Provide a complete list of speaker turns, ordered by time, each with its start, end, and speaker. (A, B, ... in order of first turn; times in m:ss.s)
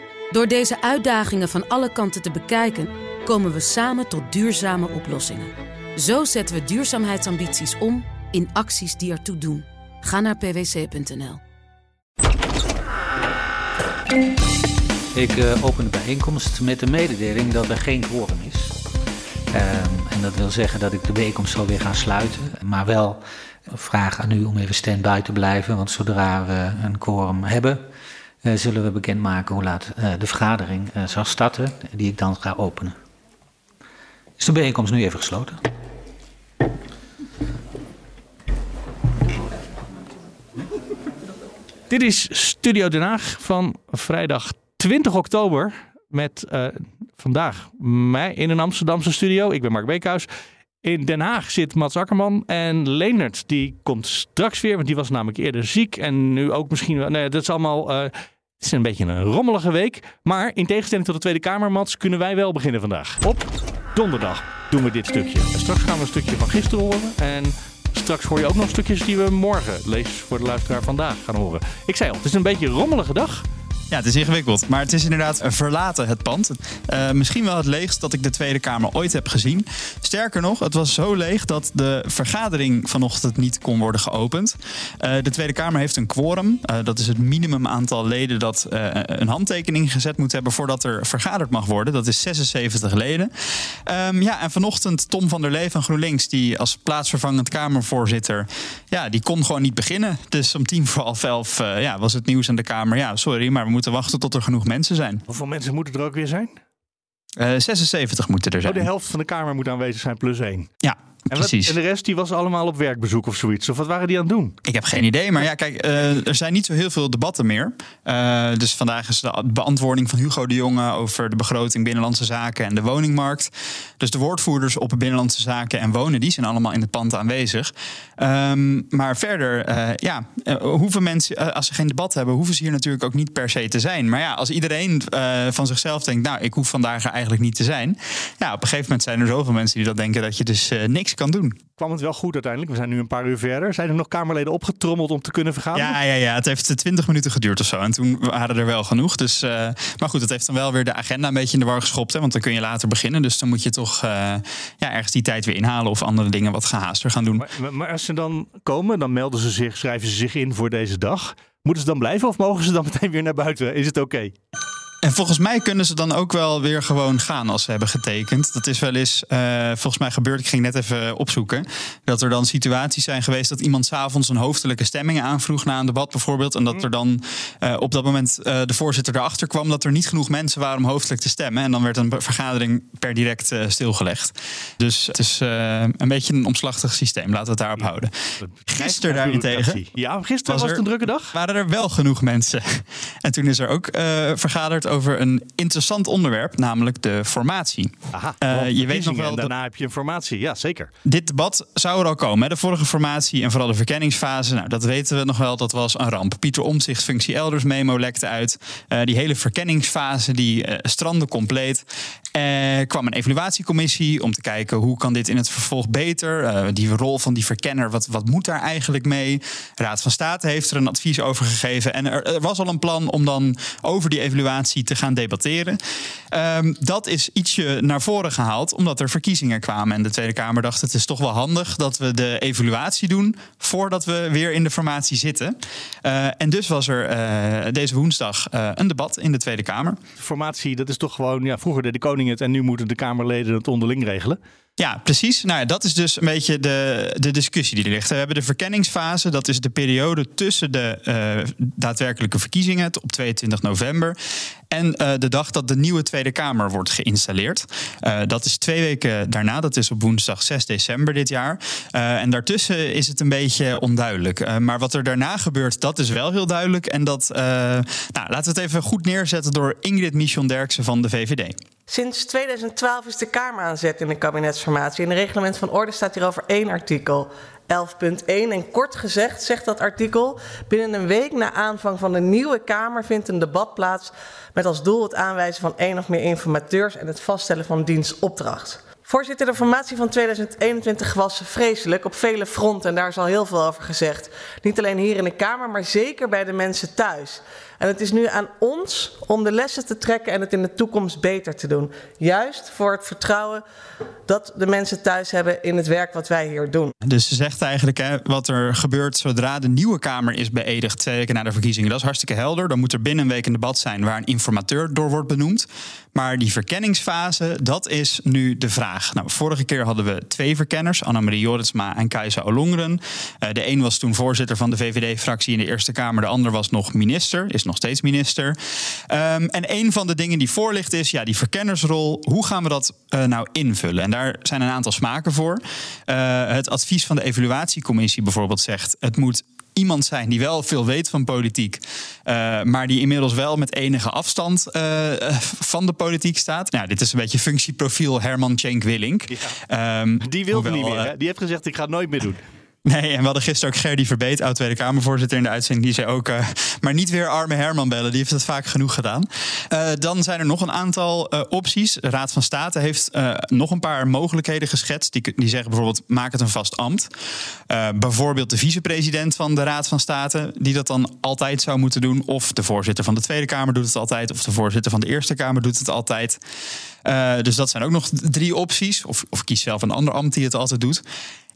0:00.3-0:11.4 A
0:15.1-0:18.8 B
0:19.5-0:27.8 B
0:28.4-0:33.0 B
0:34.4-0:35.6 B
0:41.9-0:50.3 C
0:50.8-1:13.4 C
1:13.9-1:33.3 D
1:33.8-1:45.2 D
1:45.3-1:46.6 C
1:47.4-1:48.8 D
1:48.6-1:50.7 C
1:50.8-1:51.7 D
1:51.3-1:54.6 C
1:54.6-2:21.6 D
2:21.8-2:26.0 C
2:25.7-2:37.4 D
2:37.4-2:44.3 C
2:45.0-3:08.1 D
3:08.4-3:11.3 C
3:08.7-3:09.8 D
3:10.5-3:19.5 D
3:18.1-3:20.9 C
3:21.0-3:31.8 D
3:32.3-3:45.8 D
3:46.3-4:00.0 D
4:00.2-4:04.4 C
4:04.8-4:14.2 D
4:14.7-4:31.6 D
4:31.9-5:03.6 E
5:04.3-5:06.9 E
5:07.0-5:28.6 D
5:29.1-5:51.1 D
5:49.3-5:49.6 C
5:50.2-5:52.4 C
5:52.8-6:07.1 D
6:07.7-6:16.4 D
6:17.0-6:21.0 D